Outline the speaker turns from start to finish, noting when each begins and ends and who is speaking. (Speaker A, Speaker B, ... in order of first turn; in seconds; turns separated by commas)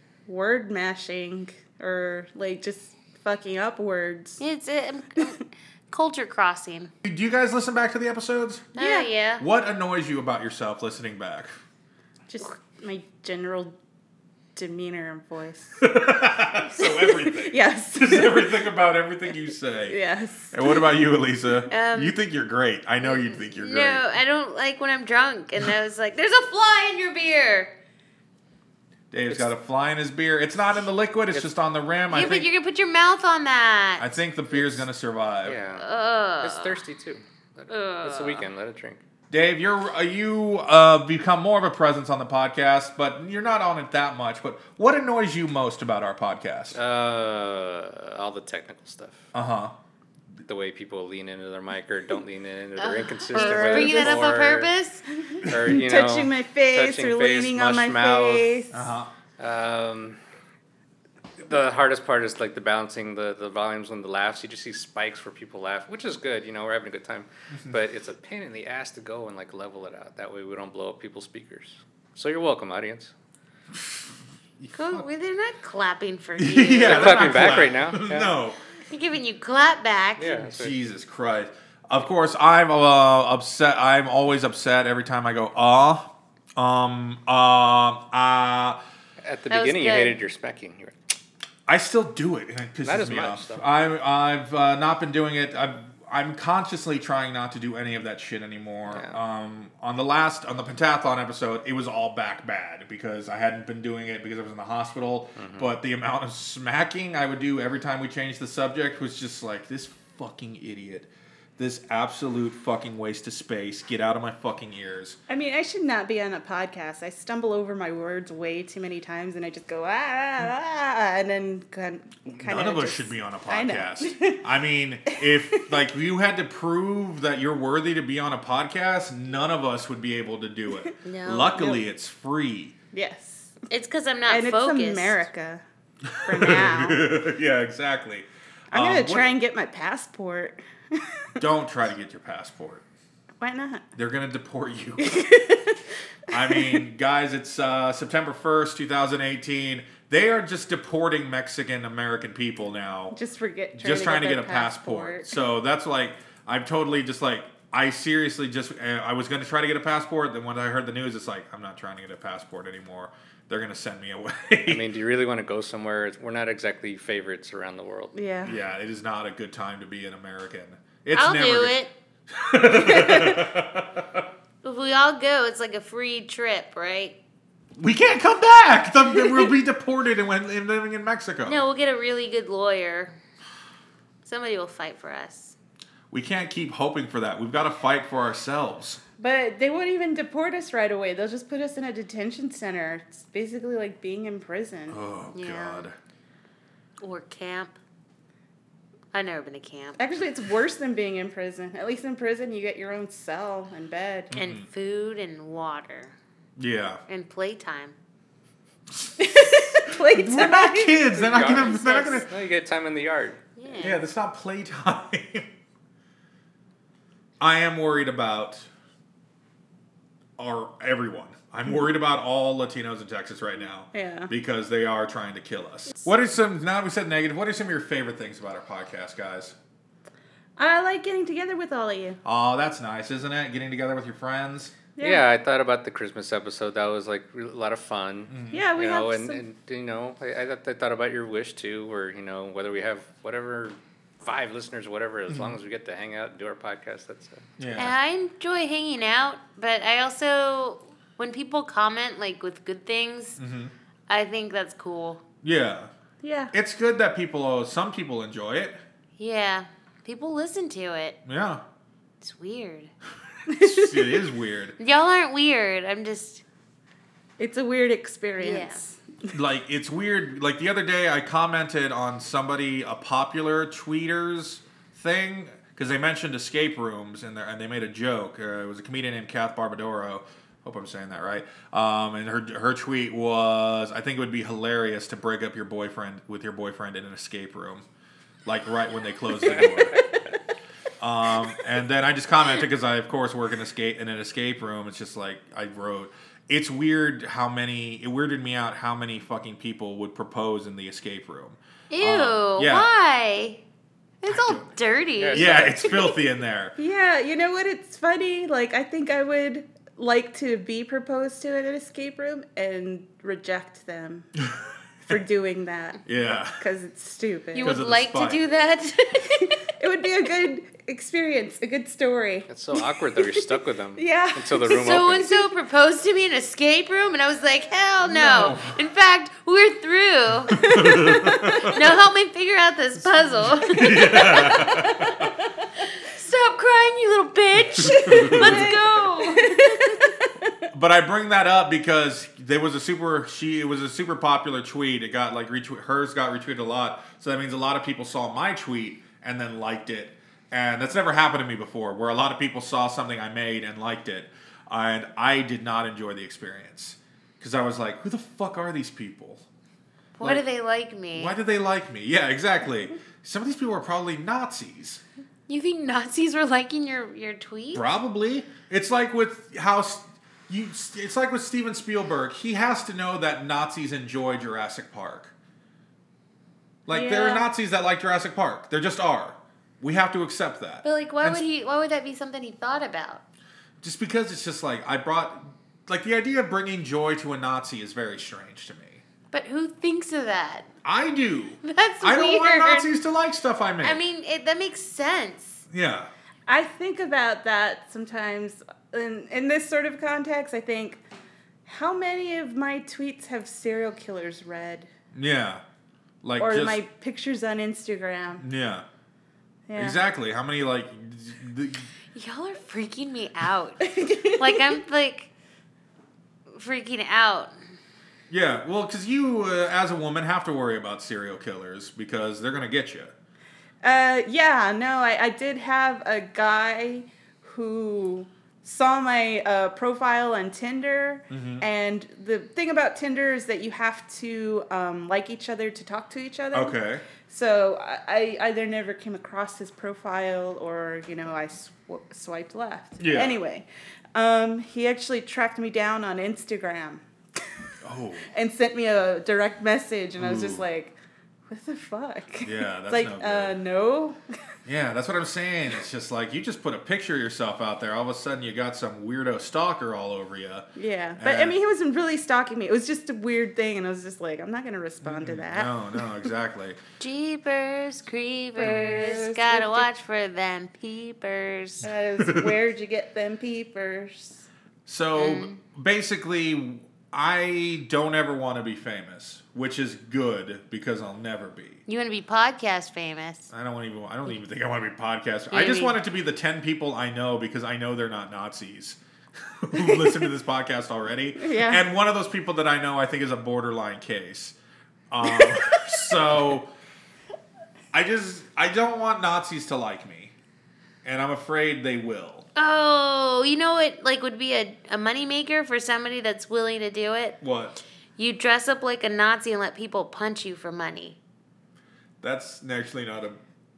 Speaker A: 0.3-4.4, Speaker B: 4.4-6.9, Speaker C: 7.0-8.7, Speaker B: 8.8-9.4, Speaker A: 8.8-9.1, Speaker C: 9.4-11.5, Speaker A: 12.3-13.7, Speaker A: 14.6-15.8, Speaker C: 15.8-20.0, Speaker A: 16.8-18.6, Speaker A: 19.9-20.9, Speaker C: 20.5-24.0, Speaker B: 21.7-22.1, Speaker B: 23.0-27.7, Speaker C: 29.1-32.5, Speaker B: 32.1-34.1, Speaker C: 34.0-35.6, Speaker D: 35.5-35.9, Speaker B: 35.8-36.8, Speaker D: 36.4-39.0, Speaker B: 37.7-38.5, Speaker C: 39.3-46.8, Speaker D: 46.8-49.2, Speaker C: 49.3-49.8, Speaker D: 50.5-54.7, Speaker B: 52.8-55.0, Speaker A: 53.3-54.3, Speaker A: 55.2-58.8, Speaker D: 55.5-58.6, Speaker C: 58.7-59.1, Speaker D: 59.4-60.2, Speaker D: 61.4-73.1, Speaker C: 73.8-74.1, Speaker C: 74.6-75.1, Speaker B: 74.7-77.8, Speaker C: 76.4-78.6, Speaker D: 76.8-78.3, Speaker B: 78.9-80.4, Speaker D: 80.2-80.7, Speaker C: 80.4-88.8, Speaker D: 89.2-91.0, Speaker B: 89.5-90.2, Speaker C: 91.7-115.2, Speaker D: 92.8-93.7, Speaker D: 98.9-99.2, Speaker D: 105.4-105.8, Speaker A: 115.3-124.4, Speaker C: 122.3-132.7, Speaker A: 125.1-125.6, Speaker B: 131.0-131.6, Speaker A: 131.5-131.8, Speaker A: 132.9-133.6, Speaker B: 133.7-135.2, Speaker A: 134.3-135.6, Speaker C: 136.1-139.3, Speaker A: 136.2-137.1, Speaker A: 138.7-141.2, Speaker C: 141.4-142.8, Speaker A: 143.4-143.8, Speaker C: 143.9-145.2, Speaker A: 145.0-146.8, Speaker C: 146.3-153.2, Speaker A: 153.1-155.3, Speaker C: 153.8-164.9, Speaker D: 164.7-168.1, Speaker A: 168.1-168.6, Speaker C: 168.4-171.8, Speaker B: 171.2-171.9, Speaker C: 172.3-174.3, Speaker A: 172.7-173.5, Speaker B: 174.6-177.2, Speaker C: 177.8-181.6, Speaker B: 181.4-183.2, Speaker B: 184.2-185.5, Speaker C: 186.1-189.0, Speaker A: 189.2-195.0, Speaker C: 194.9-195.9, Speaker B: 195.3-195.9, Speaker B: 197.0-197.8, Speaker B: 199.1-200.0, Speaker A: 200.0-204.3, Speaker C: 204.3-204.7, Speaker B: 204.3-206.2, Speaker C: 206.6-207.0, Speaker B: 207.1-208.0, Speaker C: 209.0-212.3, Speaker A: 209.2-211.4, Speaker D: 211.2-213.4, Speaker B: 211.5-211.8, Speaker B: 213.6-214.0, Speaker C: 213.8-215.5, Speaker C: 217.4-218.7, Speaker C: 220.4-229.5, Speaker A: 223.9-224.3, Speaker A: 230.6-232.2, Speaker C: 232.2-234.8, Speaker A: 235.0-235.2, Speaker D: 235.0-247.4, Speaker C: 238.3-238.7, Speaker A: 238.5-239.4, Speaker C: 245.3-245.6, Speaker C: 247.6-248.0, Speaker B: 247.8-253.4, Speaker C: 253.4-253.7, Speaker B: 254.1-255.2, Speaker C: 255.4-255.9, Speaker A: 256.2-256.5, Speaker C: 256.5-258.8, Speaker B: 259.2-261.2, Speaker C: 261.2-261.6, Speaker B: 262.2-262.9, Speaker A: 263.5-264.2, Speaker C: 263.5-264.8, Speaker B: 264.8-266.4, Speaker A: 267.4-269.0, Speaker B: 268.4-268.8, Speaker C: 269.3-287.9, Speaker C: 288.4-290.0, Speaker D: 289.5-290.1, Speaker C: 291.0-302.9, Speaker B: 301.9-303.6, Speaker B: 304.2-306.1, Speaker C: 304.3-304.8, Speaker D: 305.2-306.0, Speaker C: 305.3-306.7, Speaker A: 306.8-314.3, Speaker C: 314.4-315.1, Speaker A: 315.1-317.8, Speaker C: 316.0-316.6, Speaker B: 317.5-319.5, Speaker C: 317.6-318.4, Speaker A: 319.8-322.5, Speaker D: 322.5-325.3, Speaker A: 323.2-323.4, Speaker A: 324.0-324.7, Speaker B: 324.6-334.9, Speaker A: 325.2-325.5, Speaker C: 328.0-328.8, Speaker C: 330.5-331.9, Speaker A: 330.6-331.5, Speaker C: 333.4-335.3, Speaker A: 334.4-335.2, Speaker B: 336.0-339.9, Speaker C: 337.6-338.7, Speaker A: 338.2-340.6, Speaker C: 340.7-359.4, Speaker B: 360.2-361.4, Speaker C: 361.1-365.0, Speaker B: 365.5-367.9, Speaker C: 367.7-375.3, Speaker C: 376.9-381.4, Speaker A: 376.9-377.5, Speaker B: 380.8-383.2, Speaker C: 383.8-389.0, Speaker B: 389.3-390.7, Speaker C: 390.9-394.0, Speaker B: 391.6-392.9, Speaker B: 393.8-395.6, Speaker C: 395.7-396.1, Speaker A: 396.5-401.0, Speaker A: 401.7-404.9, Speaker C: 405.1-405.6, Speaker C: 406.2-406.8, Speaker A: 406.4-408.4, Speaker C: 408.4-408.9, Speaker A: 409.7-410.0, Speaker C: 409.8-411.9, Speaker B: 412.1-415.3, Speaker A: 413.8-414.8, Speaker B: 416.5-417.5, Speaker C: 418.3-423.1, Speaker A: 423.8-447.0, Speaker C: 431.3-431.6, Speaker C: 436.5-437.0, Speaker C: 443.0-443.4, Speaker C: 447.8-448.3, Speaker A: 448.3-451.0, Speaker C: 450.2-450.6, Speaker A: 451.5-454.2, Speaker C: 452.4-453.6, Speaker C: 454.7-461.5, Speaker A: 460.8-466.1, Speaker C: 465.0-466.8, Speaker B: 467.0-471.9, Speaker A: 468.6-469.9, Speaker C: 468.6-469.1, Speaker A: 471.8-474.5, Speaker C: 472.2-472.6, Speaker C: 474.9-481.8, Speaker B: 475.1-475.6, Speaker B: 481.9-483.5, Speaker C: 483.5-494.6, Speaker B: 485.5-485.9, Speaker A: 491.4-491.8, Speaker C: 495.1-496.7, Speaker C: 497.9-500.3, Speaker C: 501.0-502.5, Speaker B: 502.6-507.4, Speaker C: 507.4-507.8, Speaker B: 508.2-511.2, Speaker C: 512.2-513.4